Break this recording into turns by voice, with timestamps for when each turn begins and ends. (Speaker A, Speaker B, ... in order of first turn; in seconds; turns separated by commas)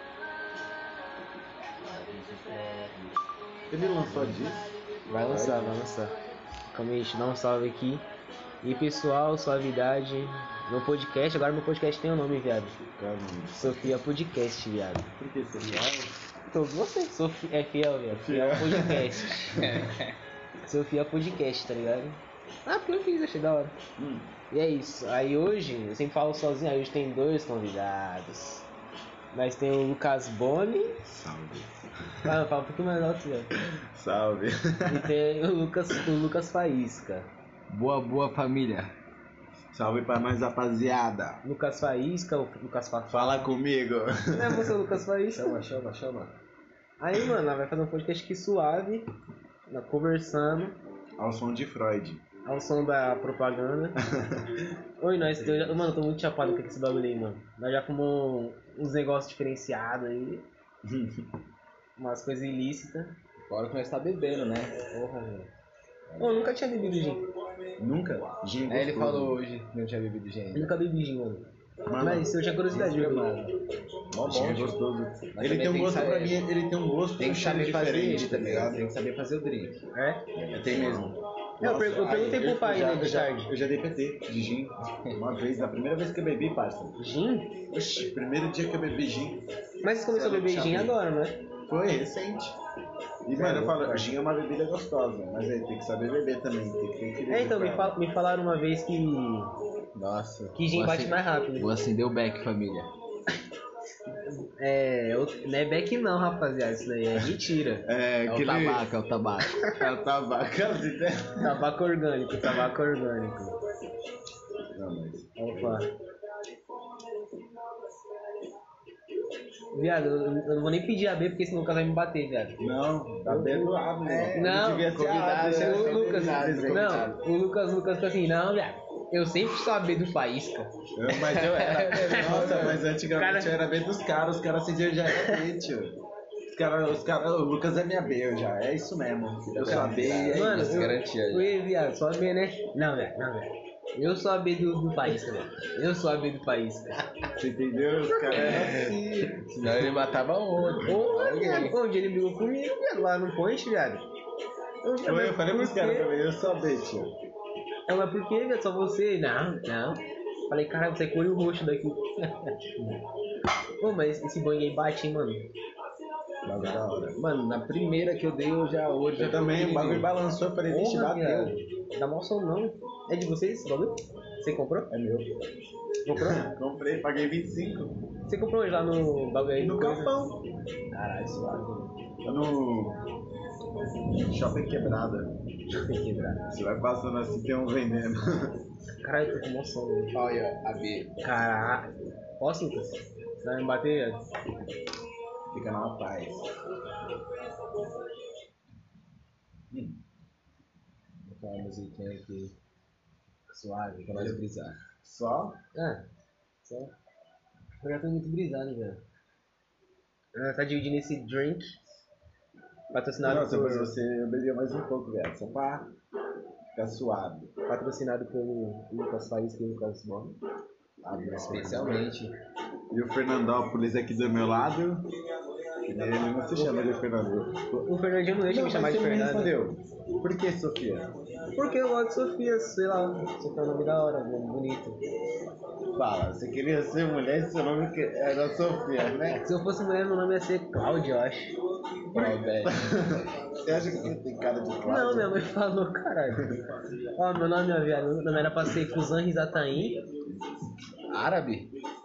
Speaker A: 1.9-3.0, Speaker B: 3.7-4.7, Speaker C: 5.1-6.1, Speaker B: 5.3-5.7, Speaker C: 6.7-8.1, Speaker C: 8.6-12.8, Speaker B: 13.0-13.9, Speaker C: 13.6-15.1, Speaker B: 15.2-16.2, Speaker C: 16.5-19.7, Speaker B: 18.1-20.0, Speaker A: 19.6-20.1, Speaker C: 20.6-23.8, Speaker B: 24.0-24.3, Speaker C: 24.5-28.7, Speaker C: 29.3-31.0, Speaker B: 31.1-32.4, Speaker C: 32.2-33.5, Speaker B: 33.6-35.1, Speaker C: 34.9-37.3, Speaker A: 37.7-38.9, Speaker B: 39.7-41.4, Speaker C: 41.4-43.5, Speaker B: 43.1-44.7, Speaker C: 44.3-45.6, Speaker A: 45.3-46.4, Speaker C: 47.0-49.1, Speaker C: 49.7-50.8, Speaker B: 51.2-52.2, Speaker C: 52.5-54.0, Speaker B: 54.0-54.7, Speaker C: 55.0-60.5, Speaker B: 55.4-55.7, Speaker B: 60.8-61.3, Speaker C: 62.0-63.1, Speaker A: 63.5-64.8, Speaker C: 64.9-65.5, Speaker C: 66.2-67.3, Speaker B: 67.8-69.4, Speaker A: 68.7-70.8, Speaker C: 70.5-73.3, Speaker B: 71.9-72.3, Speaker A: 72.7-74.8, Speaker B: 74.2-78.9, Speaker A: 75.3-76.4, Speaker A: 77.2-79.8, Speaker C: 79.9-80.2, Speaker A: 80.3-81.1, Speaker B: 80.5-87.0, Speaker C: 81.6-83.5, Speaker C: 87.0-87.6, Speaker B: 87.7-91.0, Speaker C: 89.8-91.4, Speaker B: 91.7-92.6, Speaker B: 93.3-98.0, Speaker C: 93.3-94.0, Speaker A: 93.4-93.8, Speaker C: 97.3-99.5, Speaker A: 100.0-102.9, Speaker C: 100.5-101.7, Speaker C: 104.1-107.9, Speaker B: 107.8-108.9, Speaker A: 108.2-109.8, Speaker B: 109.7-111.6, Speaker C: 111.4-113.6, Speaker B: 114.6-115.8, Speaker C: 115.4-115.9, Speaker C: 119.7-122.6, Speaker B: 122.6-127.1, Speaker C: 123.3-123.8, Speaker A: 124.0-127.2, Speaker C: 124.3-124.9, Speaker C: 125.5-130.7, Speaker B: 130.9-136.0, Speaker A: 131.3-132.8, Speaker C: 131.3-133.6, Speaker C: 135.1-135.4, Speaker B: 136.5-140.8, Speaker A: 139.5-141.6, Speaker C: 140.3-147.0, Speaker B: 147.4-149.3, Speaker C: 148.1-149.3, Speaker A: 148.3-151.8, Speaker C: 150.8-154.1, Speaker C: 154.8-156.1, Speaker B: 155.0-157.1, Speaker C: 157.9-162.4, Speaker C: 163.8-165.5, Speaker B: 166.4-167.2, Speaker A: 167.2-170.1, Speaker B: 169.2-171.6, Speaker C: 170.7-174.9, Speaker B: 174.9-175.3, Speaker C: 176.1-176.4, Speaker B: 176.1-178.0, Speaker C: 178.3-180.2, Speaker B: 179.6-180.4, Speaker C: 180.9-181.9, Speaker B: 182.2-183.0, Speaker B: 184.1-185.4, Speaker C: 185.7-186.4, Speaker B: 186.5-188.6, Speaker C: 189.0-190.2, Speaker A: 190.1-191.2, Speaker C: 191.2-194.3, Speaker B: 195.5-196.5, Speaker B: 199.7-200.0, Speaker A: 201.2-202.6, Speaker C: 203.5-204.1, Speaker A: 204.0-204.8, Speaker B: 204.1-204.4, Speaker B: 204.9-205.6, Speaker C: 205.8-206.0, Speaker C: 206.7-206.9, Speaker C: 207.8-209.0, Speaker C: 210.3-211.8, Speaker C: 212.9-213.9, Speaker B: 213.2-215.9, Speaker B: 216.8-217.5, Speaker C: 217.7-220.4, Speaker B: 221.0-222.1, Speaker A: 221.5-222.3, Speaker B: 222.9-225.1, Speaker B: 225.8-227.9, Speaker C: 227.8-229.5, Speaker B: 228.5-231.1, Speaker C: 231.5-235.0, Speaker B: 235.9-239.4, Speaker C: 239.3-241.5, Speaker B: 242.1-245.4, Speaker A: 242.1-243.4, Speaker C: 244.8-246.6, Speaker C: 247.2-250.0, Speaker A: 251.1-251.7